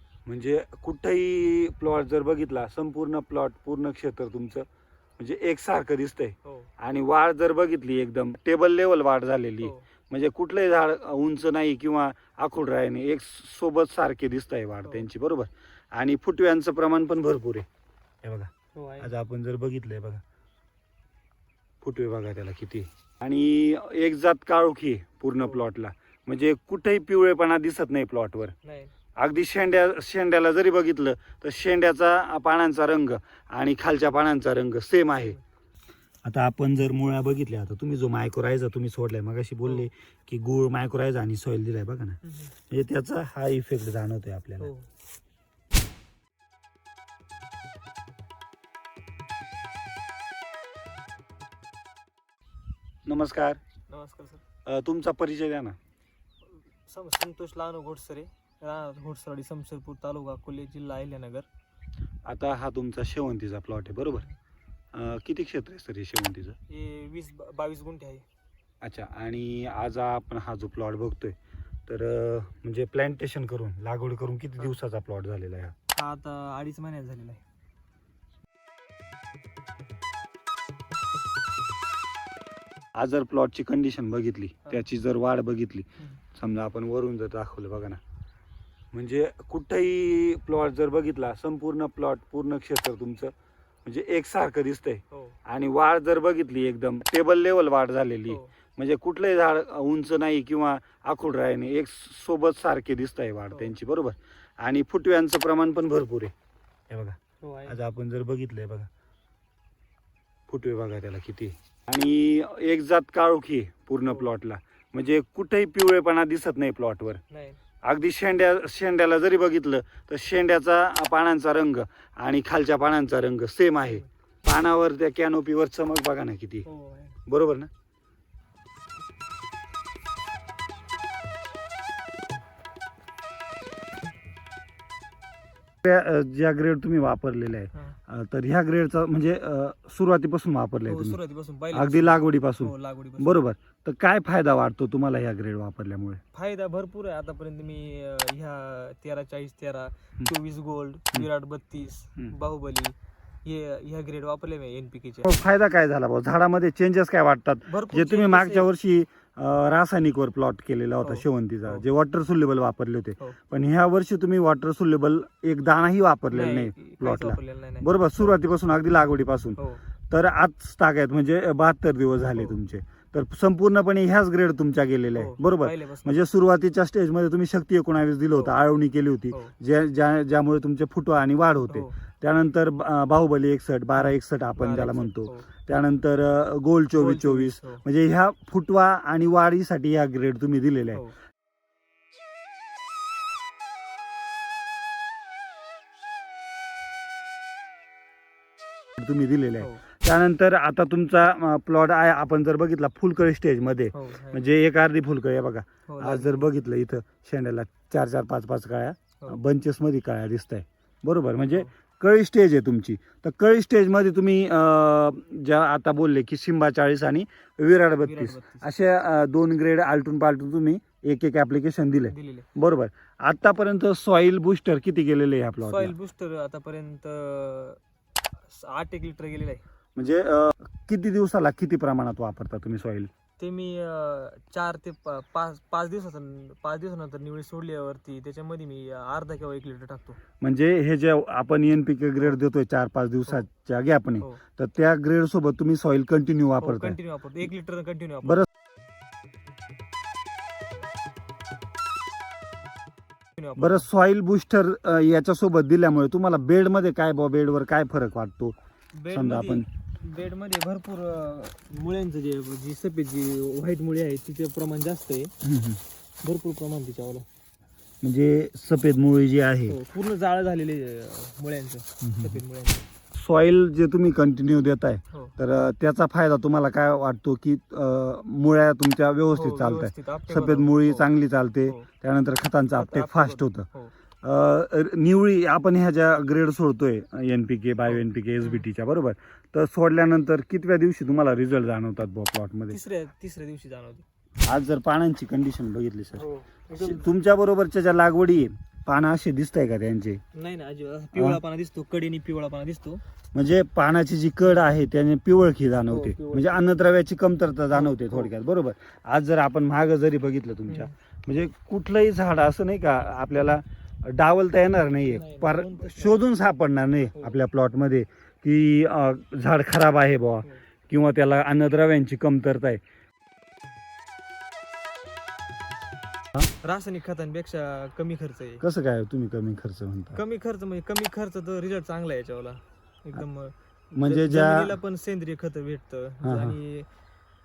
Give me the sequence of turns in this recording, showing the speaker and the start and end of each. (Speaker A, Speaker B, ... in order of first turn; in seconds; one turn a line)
Speaker A: 0.2-4.7
Speaker A: 5.2-17.6
Speaker B: 6.4-6.7
Speaker B: 9.6-9.9
Speaker B: 14.8-15.1
Speaker A: 18.2-20.2
Speaker B: 18.7-19.1
Speaker A: 21.8-28.5
Speaker B: 25.4-25.6
Speaker B: 28.6-28.9
Speaker A: 29.2-35.4
Speaker A: 36.2-44.7
Speaker B: 42.2-42.5
Speaker B: 44.6-44.9
Speaker A: 53.0-53.6
Speaker B: 53.9-54.4
Speaker A: 54.6-55.8
Speaker B: 56.8-61.5
Speaker A: 62.2-64.2
Speaker A: 64.9-66.6
Speaker B: 66.7-68.2
Speaker A: 68.8-71.3
Speaker A: 71.9-75.7
Speaker B: 75.9-77.4
Speaker A: 82.9-88.0
Speaker A: 88.9-93.3
Speaker A: 93.8-106.3
Speaker B: 95.1-95.4
Speaker B: 98.3-98.5
Speaker B: 103.5-103.7
Speaker A: 106.9-108.9
Speaker B: 107.4-107.8
Speaker A: 110.5-117.2
Speaker B: 114.0-114.3
Speaker B: 117.3-117.6
Speaker A: 117.8-126.7
Speaker B: 126.6-127.2
Speaker A: 127.2-127.7
Speaker A: 135.8-141.2
Speaker B: 140.8-143.4
Speaker A: 141.7-146.2
Speaker B: 146.3-155.3
Speaker A: 155.2-191.0
Speaker B: 157.7-158.7
Speaker B: 161.0-161.8
Speaker B: 166.3-168.3
Speaker B: 169.6-169.8
Speaker B: 175.1-176.2
Speaker B: 181.6-181.9
Speaker B: 184.0-185.5
Speaker B: 186.9-187.8
Speaker A: 199.0-225.9
Speaker B: 199.6-199.9
Speaker B: 203.9-204.4
Speaker B: 205.9-206.5
Speaker B: 218.0-218.7
Speaker B: 222.0-222.5
Speaker B: 225.6-227.8
Speaker B: 228.4-229.6
Speaker A: 229.9-233.1
Speaker B: 233.4-240.3
Speaker A: 240.4-247.0
Speaker B: 246.6-248.5
Speaker B: 253.4-253.9
Speaker A: 253.6-258.6
Speaker B: 258.9-265.3
Speaker A: 259.1-259.7
Speaker A: 265.4-265.8
Speaker B: 266.2-267.2
Speaker A: 268.0-269.8
Speaker B: 269.7-272.8
Speaker A: 272.0-272.4
Speaker A: 273.1-283.7
Speaker B: 279.3-281.1
Speaker B: 281.6-281.9
Speaker B: 282.7-283.9
Speaker A: 284.2-292.8
Speaker B: 287.9-288.7
Speaker B: 292.7-294.0
Speaker A: 294.4-300.2
Speaker B: 296.1-297.1
Speaker B: 300.3-303.0
Speaker A: 301.1-301.4
Speaker A: 303.3-322.8
Speaker B: 305.9-306.7
Speaker B: 307.7-308.3
Speaker B: 310.7-310.9
Speaker B: 315.0-316.2
Speaker B: 326.6-328.6
Speaker A: 328.6-330.2
Speaker B: 330.1-336.9
Speaker A: 333.9-334.8
Speaker A: 336.2-336.6